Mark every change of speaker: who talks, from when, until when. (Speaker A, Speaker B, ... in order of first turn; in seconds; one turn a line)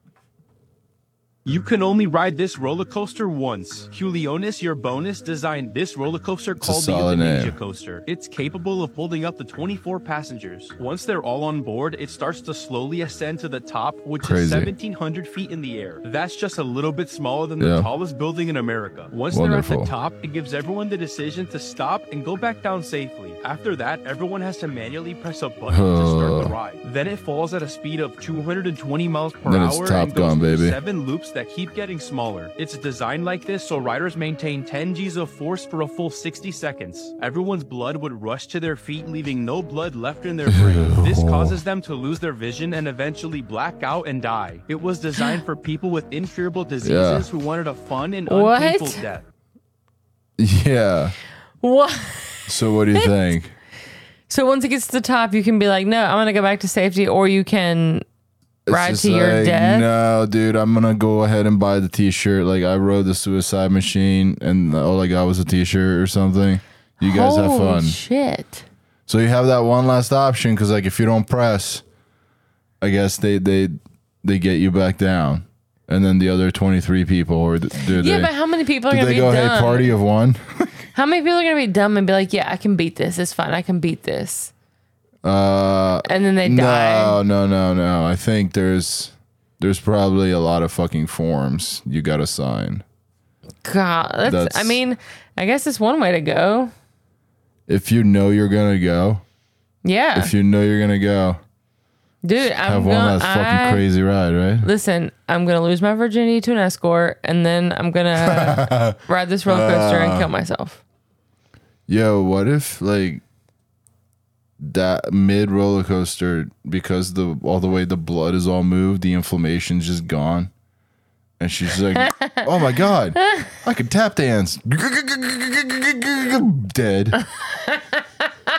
Speaker A: 1.4-49.2
Speaker B: 6.6-7.6
Speaker B: 14.2-14.7
Speaker B: 17.6-17.9
Speaker B: 19.3-19.9
Speaker B: 25.7-26.6
Speaker B: 29.4-30.8
Speaker B: 40.5-41.6
Speaker B: 46.8-47.3
Speaker C: 48.3-49.0
Speaker B: 50.4-51.1
Speaker C: 51.6-53.1
Speaker B: 52.5-53.5
Speaker C: 54.3-58.0
Speaker B: 58.7-68.0
Speaker C: 58.7-59.9
Speaker C: 67.0-68.7
Speaker B: 69.1-71.8
Speaker B: 72.8-78.3
Speaker C: 77.9-79.9
Speaker B: 78.9-80.9
Speaker C: 80.9-84.5
Speaker B: 85.2-92.8
Speaker C: 86.0-87.2
Speaker C: 93.6-96.7
Speaker B: 94.2-94.8
Speaker B: 97.7-99.2
Speaker C: 99.8-100.3
Speaker B: 100.2-101.4
Speaker C: 102.2-103.8
Speaker B: 102.4-104.7
Speaker C: 104.6-110.8
Speaker B: 108.2-110.3
Speaker B: 111.9-113.2
Speaker B: 114.6-120.5
Speaker B: 121.4-127.2
Speaker C: 122.0-122.4
Speaker C: 127.4-128.0